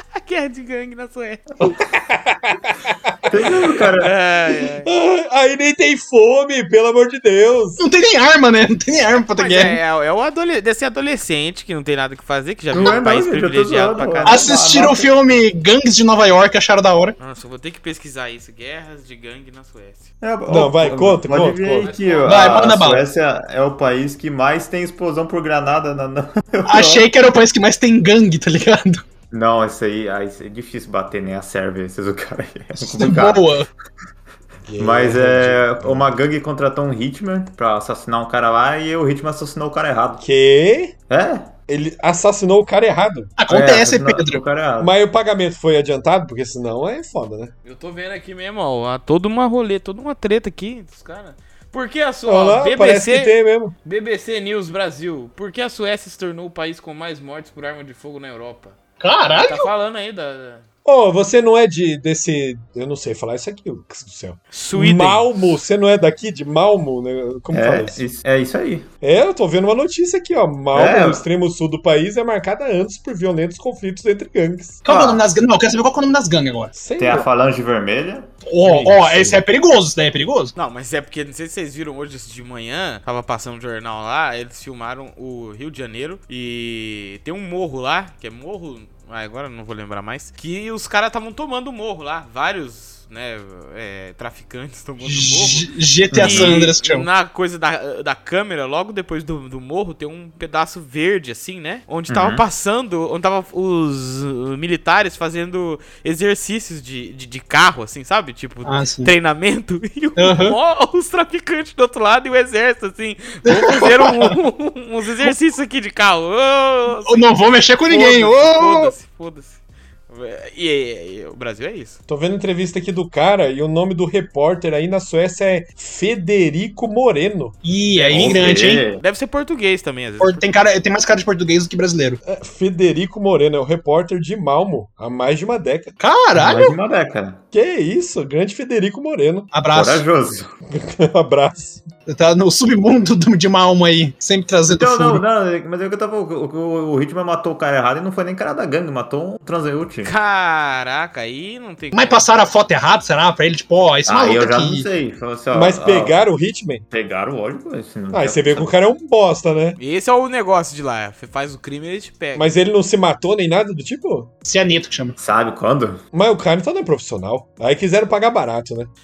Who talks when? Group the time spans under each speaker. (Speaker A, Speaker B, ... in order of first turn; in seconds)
Speaker A: 0.1-1.4, 3.8-4.9, 9.3-14.5, 17.2-20.1, 21.8-22.6, 47.6-53.3, 53.9-58.8, 59.3-60.6, 64.5-65.5, 80.5-117.2, 117.9-122.0, 127.9-130.4, 150.0-152.2, 159.8-162.5
Speaker B: 1.6-3.6, 4.8-7.8, 20.5-21.9, 34.6-36.1, 40.2-40.9, 41.7-43.3, 44.8-47.5, 52.2-53.7, 60.9-68.0, 69.0-74.8, 76.7-77.3, 78.6-79.4, 122.1-127.5, 132.2-136.0, 137.5-139.5, 140.7-141.8, 155.5-156.8, 158.1-159.8, 162.4-164.3, 166.1-168.9
Speaker C: 3.3-4.1, 12.7-15.1, 20.2-27.1, 29.3-33.5, 34.8-40.2, 41.1-41.5, 43.5-44.9, 67.5-68.9, 70.7-71.2, 74.9-75.2, 77.0-78.3, 96.1-96.6, 102.1-102.4, 128.1-129.0, 136.3-137.4, 139.7-140.5, 144.7-150.1, 154.1-156.2, 156.9-158.7, 165.2-166.0
Speaker D: 7.8-9.8, 14.2-17.1, 22.2-23.0, 26.7-29.0, 32.8-33.7, 43.4-44.4, 59.0-59.7, 74.8-76.7, 78.5-80.5, 95.0-97.1, 108.6-109.1, 110.2-110.6, 113.5-114.3, 117.0-118.9, 127.6-128.8, 130.2-132.2, 136.0-136.7, 139.5-140.0, 142.1-145.2, 151.9-154.9, 164.4-165.2